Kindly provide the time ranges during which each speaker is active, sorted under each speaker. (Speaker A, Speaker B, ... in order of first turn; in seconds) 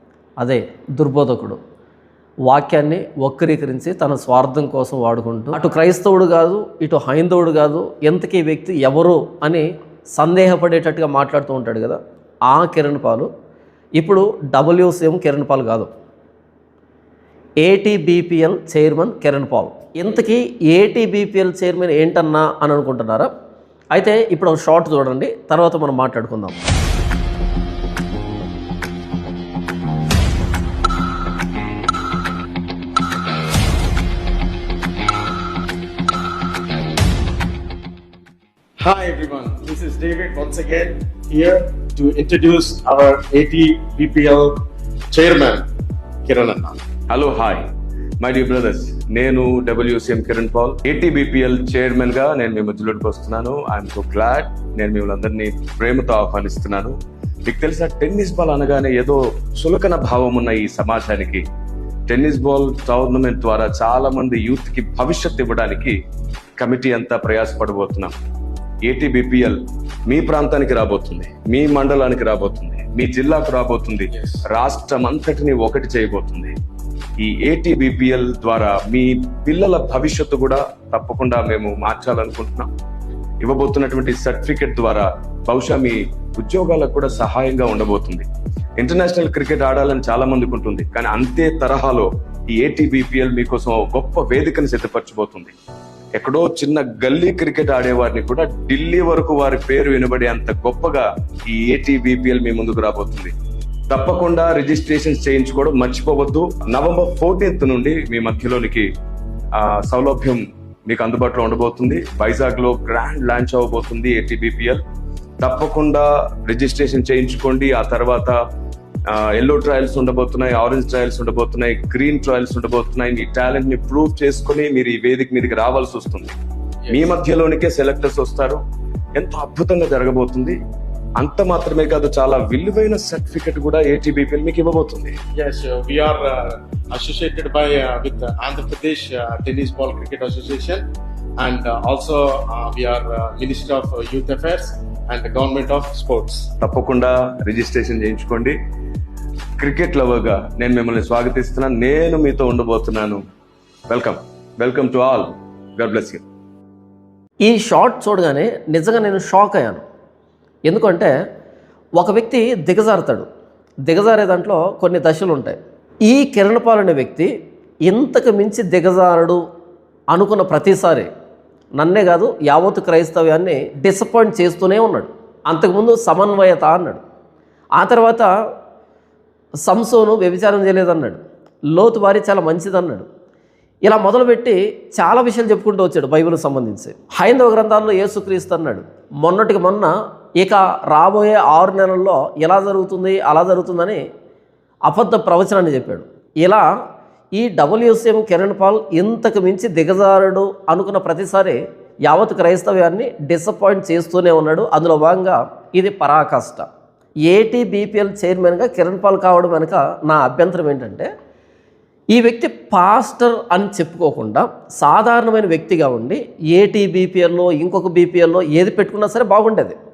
Speaker A: 0.4-1.6, 2.5-9.7, 10.2-12.0, 12.5-13.3, 14.0-15.9, 17.6-23.3, 23.9-26.6, 157.4-159.8, 160.7-161.1, 162.0-163.3, 163.9-167.3, 167.9-169.4, 170.1-171.1, 171.8-177.0, 177.8-178.3, 179.7-181.2, 181.7-183.1, 183.8-194.0, 194.9-196.7, 197.4-206.7, 207.3-211.1, 212.1-219.8
Speaker B: 38.8-44.5, 45.1-45.6, 46.2-46.8, 74.2-74.4, 126.9-127.1, 135.3-140.8, 141.4-146.5
Speaker C: 47.1-47.6, 48.2-56.9, 57.5-61.4, 62.1-65.9, 66.6-68.1, 68.9-69.6, 70.1-76.5, 77.2-82.7, 83.4-88.3, 88.8-95.5, 96.2-103.3, 103.9-108.8, 109.5-114.8, 115.4-118.3, 119.1-126.3, 126.9-128.6, 129.2-130.6, 131.2-135.2, 146.6-148.6, 149.6-153.2, 153.9-156.2